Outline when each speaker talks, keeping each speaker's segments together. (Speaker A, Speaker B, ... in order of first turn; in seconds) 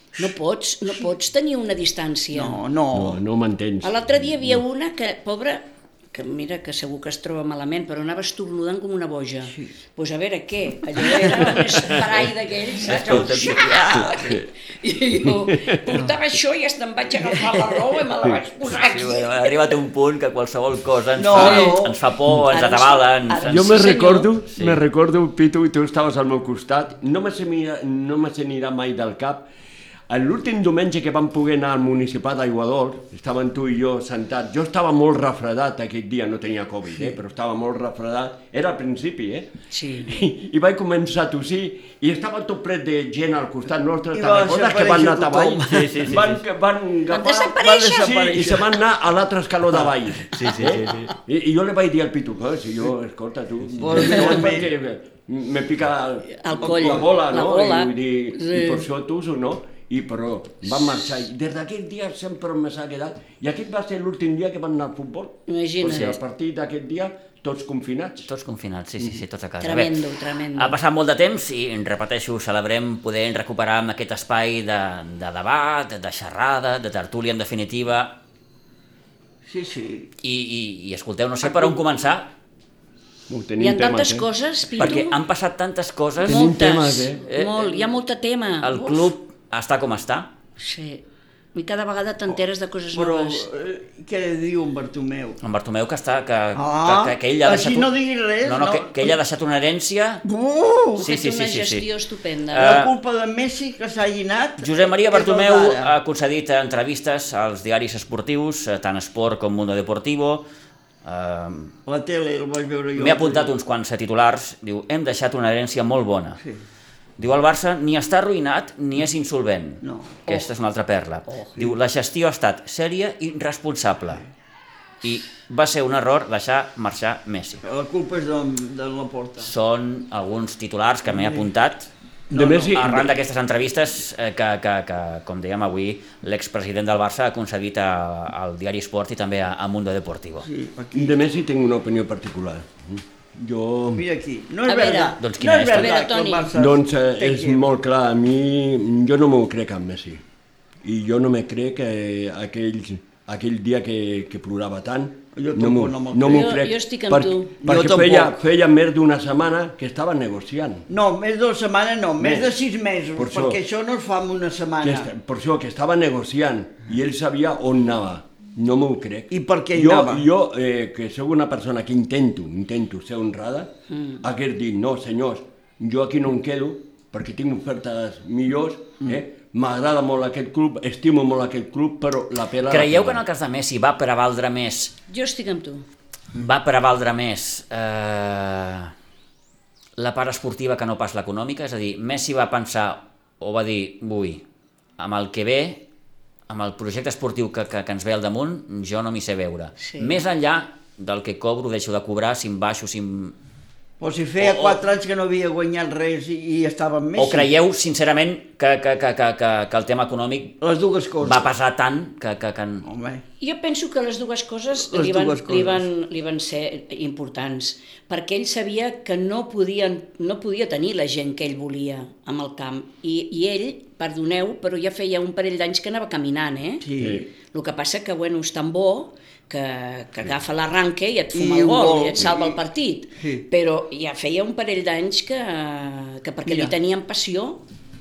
Speaker A: 0.2-2.6, 3.8-19.8, 21.3-21.8, 22.5-24.3, 39.7-40.2, 47.1-48.1, 56.3-58.8, 65.5-66.2, 69.6-70.8, 83.6-85.2, 86.2-89.1, 90.6-93.5, 101.0-102.8, 144.7-146.5, 156.3-157.6, 185.1-185.9, 199.8-200.2, 213.4-237.6
Speaker B: 2.3-3.2, 17.2-17.8, 21.2-22.0, 44.1-45.9, 47.6-48.8, 53.8-54.7, 56.6-57.1, 79.5-80.1, 81.4-81.8, 92.9-95.4, 96.6-99.2, 100.2-101.0, 102.6-105.9, 111.9-113.5, 119.8-120.2, 127.6-129.5, 131.1-131.5, 132.3-132.8, 140.5-141.1, 143.9-147.7, 155.4-156.5, 157.6-158.4, 160.9-165.1, 169.3-170.2, 204.0-207.5, 210.6-211.5, 212.8-213.2, 214.8-215.9, 226.8-227.3, 231.3-232.6, 236.5-236.7
Speaker C: 2.9-4.6, 14.2-14.4, 15.5-15.8, 23.4-29.5, 30.1-39.5, 40.1-68.3, 83.3-84.3, 86.2-87.2, 132.3-133.1, 140.9-144.1, 146.6-150.2, 150.8-160.9, 162.2-162.6, 163.2-163.6, 164.8-183.2, 227.0-227.3
Speaker D: 12.9-14.3, 18.7-24.8, 45.7-46.4, 50.3-51.1, 68.2-70.0, 70.6-78.2, 80.2-82.3, 84.8-86.5, 87.3-87.9, 88.6-90.3, 95.4-97.9, 98.4-100.2, 101.0-101.9, 102.5-102.9, 104.6-110.5, 111.0-111.7, 113.0-116.4, 117.2-124.2, 125.0-127.6, 129.4-131.9, 132.4-140.5, 145.2-146.0, 182.7-184.9, 186.3-188.9, 190.0-194.4, 195.0-195.8, 196.5-203.3, 204.4-204.8, 207.2-210.6, 211.2-212.8